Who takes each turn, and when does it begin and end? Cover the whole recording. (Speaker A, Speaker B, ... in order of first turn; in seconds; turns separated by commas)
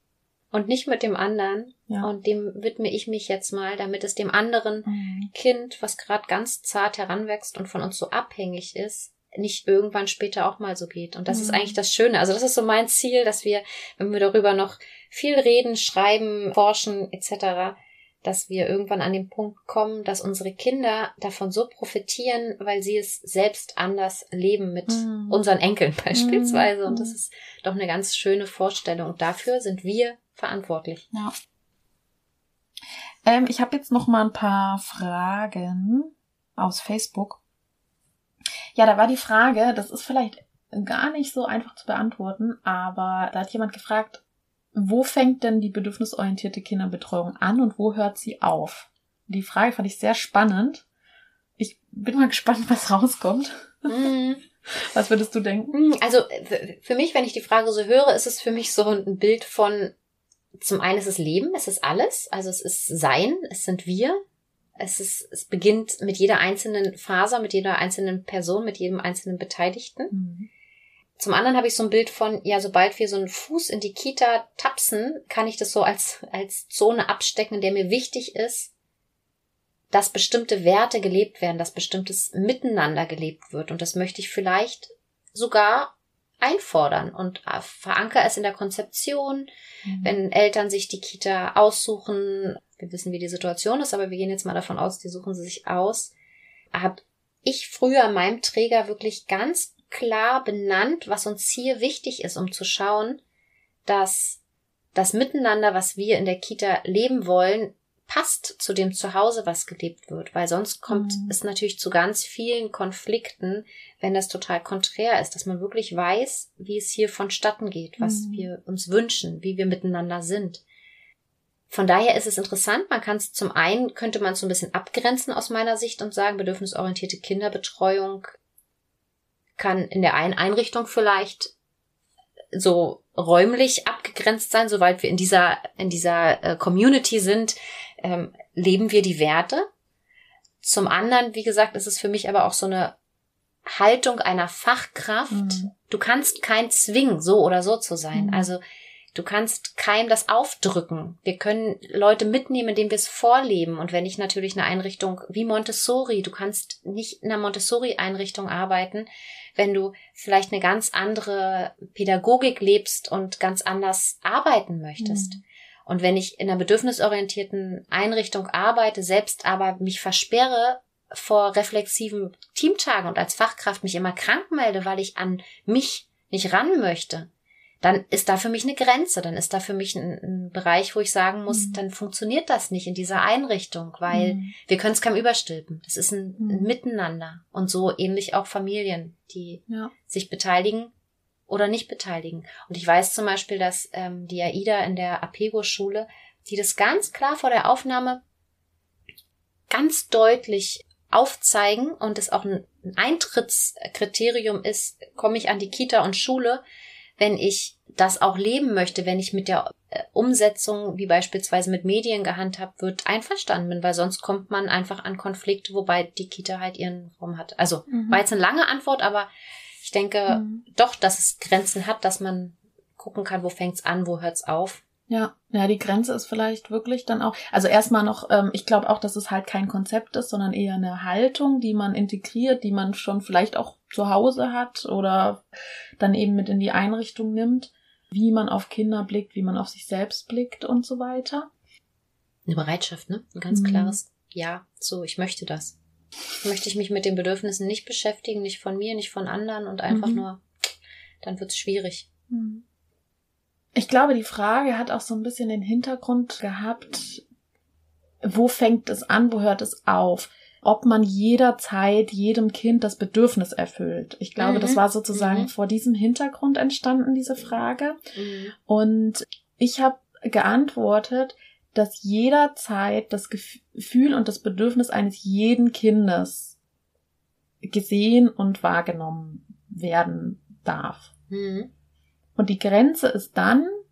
Speaker A: 0.5-31.0, Speaker B: 4.8-5.3, Speaker B: 11.3-11.8, Speaker B: 24.9-25.4, Speaker B: 26.1-27.1, Speaker B: 33.2-37.4, Speaker B: 38.7-44.2, Speaker B: 44.7-50.8, Speaker B: 51.6-54.0, Speaker A: 53.9-54.4, Speaker B: 54.7-55.7, Speaker A: 55.7-59.9, Speaker A: 60.6-64.2, Speaker A: 64.8-70.1, Speaker B: 70.1-70.5, Speaker A: 71.2-78.7, Speaker A: 79.9-89.5, Speaker B: 89.8-90.2, Speaker A: 90.0-96.1, Speaker A: 96.7-103.2, Speaker A: 103.8-104.4, Speaker A: 104.9-120.6, Speaker B: 110.9-111.3, Speaker B: 118.0-118.5, Speaker A: 121.7-128.3, Speaker A: 129.6-131.5, Speaker A: 132.5-139.7, Speaker A: 140.6-142.9, Speaker A: 143.6-148.6, Speaker B: 145.3-145.7, Speaker B: 148.1-148.5, Speaker A: 149.1-177.3, Speaker B: 165.0-165.4, Speaker A: 177.8-190.9, Speaker B: 181.5-181.8, Speaker B: 184.1-184.5, Speaker B: 186.4-186.7, Speaker A: 191.5-198.2, Speaker A: 199.7-206.6, Speaker A: 207.2-219.3, Speaker B: 217.9-218.2, Speaker A: 219.8-224.8, Speaker B: 220.3-220.6, Speaker B: 225.1-235.4, Speaker B: 236.0-241.5, Speaker A: 242.4-245.8, Speaker B: 243.5-244.0, Speaker A: 246.4-250.4, Speaker B: 249.9-250.2, Speaker A: 251.2-252.1, Speaker B: 252.3-252.6, Speaker B: 253.7-257.2, Speaker B: 258.2-268.0, Speaker A: 264.4-265.5, Speaker A: 268.1-268.5, Speaker B: 268.6-276.6, Speaker B: 277.6-281.1, Speaker A: 281.3-281.7, Speaker B: 282.4-283.7